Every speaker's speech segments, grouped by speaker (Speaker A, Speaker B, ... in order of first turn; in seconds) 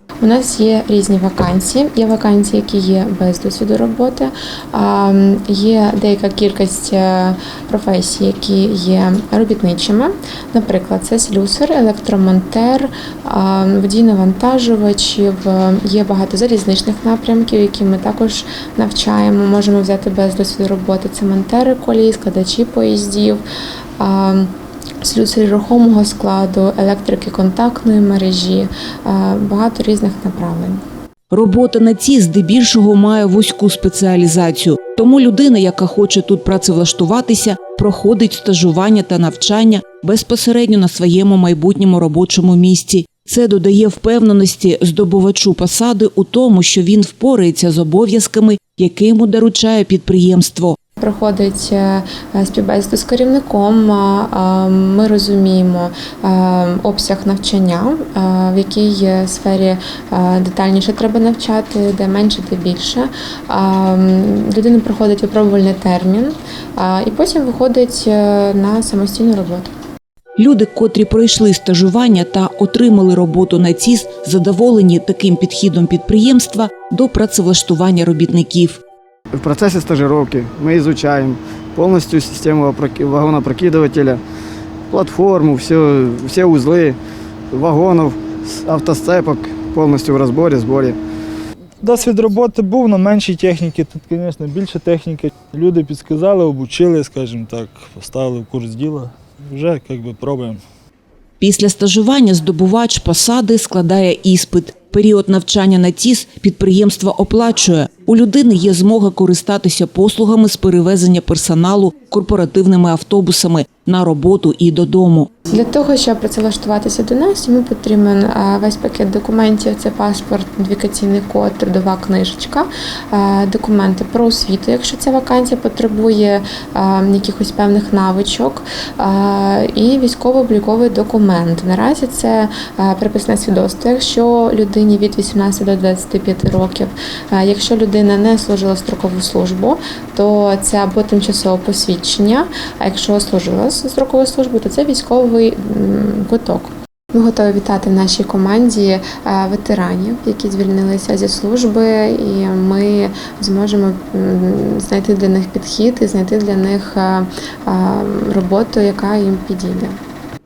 Speaker A: 0.2-23.4, 24.0-30.8, 51.0-69.7, 115.5-160.0
Speaker B: 31.3-50.8, 70.4-78.8, 101.4-115.3
Speaker C: 79.3-84.2, 84.9-87.0, 87.5-91.0
Speaker D: 91.8-100.6